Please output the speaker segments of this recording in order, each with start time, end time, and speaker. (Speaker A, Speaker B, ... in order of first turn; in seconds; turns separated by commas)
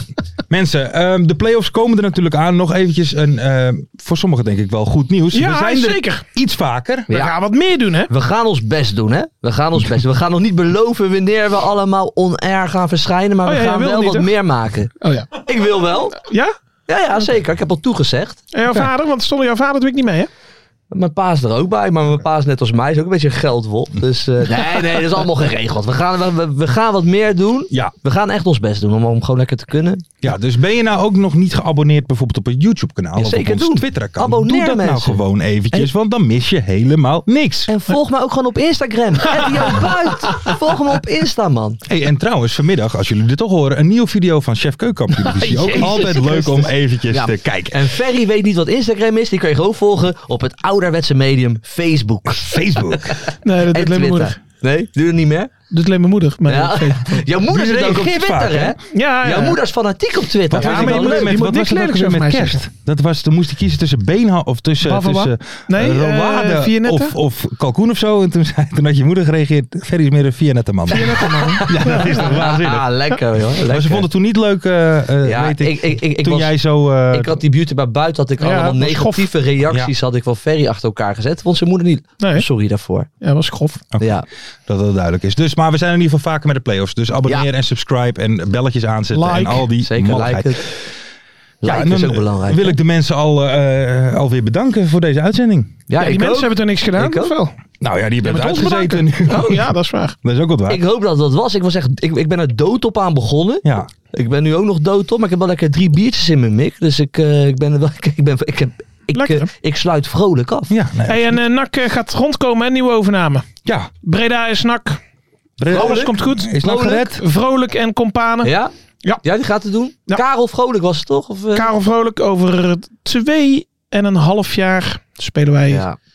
Speaker A: 0.5-7.1, Speaker B: 5.3-6.3, Speaker C: 7.1-7.3, Speaker B: 7.1-8.1, Speaker C: 8.1-16.2, Speaker B: 13.4-14.3, Speaker B: 15.0-15.5, Speaker B: 16.2-16.5, Speaker C: 16.9-18.4, Speaker B: 18.5-20.3, Speaker C: 20.9-30.1, Speaker A: 30.2-37.7, Speaker C: 33.2-35.9, Speaker C: 37.7-41.8, Speaker A: 41.9-47.9, Speaker C: 45.1-55.5, Speaker A: 52.3-53.2, Speaker B: 53.4-54.4, Speaker B: 55.7-57.3, Speaker C: 56.5-61.3, Speaker A: 57.5-58.8, Speaker B: 58.9-59.6, Speaker A: 60.5-72.9, Speaker B: 60.6-62.6, Speaker B: 64.8-67.2, Speaker B: 70.9-72.3, Speaker C: 71.0-74.1, Speaker A: 73.7-77.4, Speaker C: 75.2-76.5, Speaker C: 77.1-83.1, Speaker B: 78.4-79.3, Speaker B: 82.2-82.5, Speaker B: 83.2-83.8, Speaker A: 84.0-90.8, Speaker C: 84.0-84.3, Speaker B: 89.1-89.7, Speaker C: 89.8-90.7, Speaker C: 91.6-92.8, Speaker A: 91.6-95.8, Speaker C: 95.9-97.3, Speaker B: 96.0-97.5, Speaker A: 97.8-100.8, Speaker B: 98.2-100.2, Speaker C: 100.7-110.7, Speaker A: 103.6-103.9, Speaker B: 109.1-109.5, Speaker A: 110.7-111.4, Speaker B: 111.1-113.5, Speaker A: 113.7-113.9, Speaker B: 114.0-115.0, Speaker A: 115.6-117.2, Speaker B: 115.7-118.5, Speaker C: 115.7-116.1, Speaker C: 118.4-118.7, Speaker C: 119.2-121.7, Speaker B: 121.5-125.9, Speaker C: 125.7-126.0